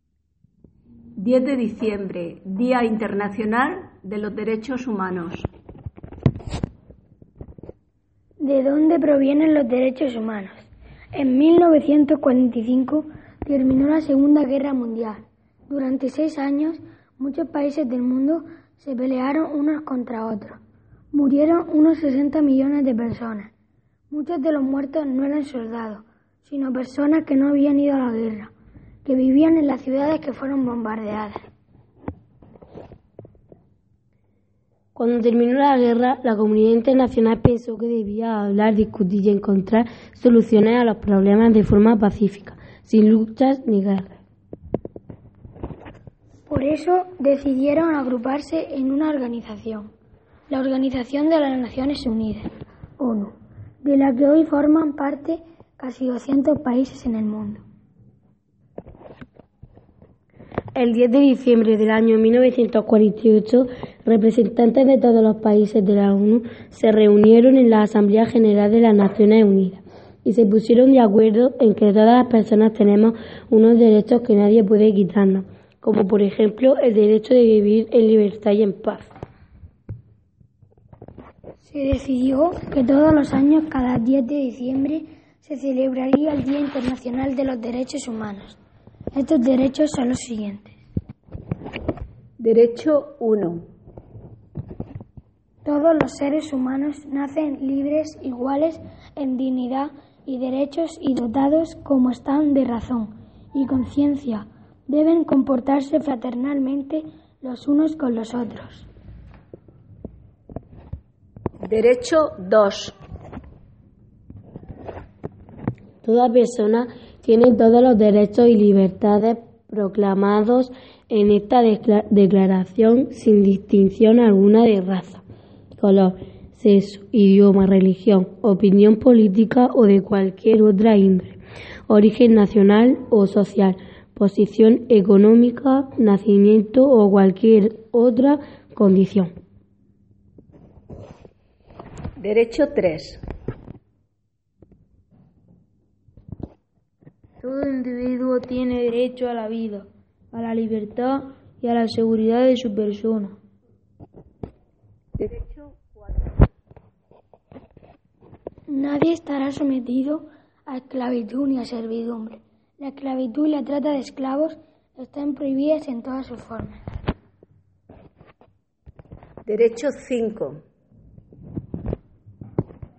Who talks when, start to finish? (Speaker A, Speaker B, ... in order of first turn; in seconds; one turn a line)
Speaker A: 1.2-5.5
Speaker B: 8.4-20.6
Speaker B: 21.1-23.5
Speaker B: 24.1-28.5
Speaker B: 29.0-31.4
Speaker C: 34.9-44.2
Speaker B: 46.5-49.9
Speaker B: 50.5-57.6
Speaker C: 60.7-79.1
Speaker B: 81.6-88.6
Speaker B: 89.1-90.7
Speaker A: 92.4-93.6
Speaker B: 95.6-108.9
Speaker A: 111.6-112.9
Speaker C: 116.0-125.2
Speaker C: 125.8-139.3
Speaker A: 142.2-143.2
Speaker D: 147.4-153.3
Speaker A: 155.2-156.2
Speaker B: 158.7-166.8
Speaker A: 169.4-170.6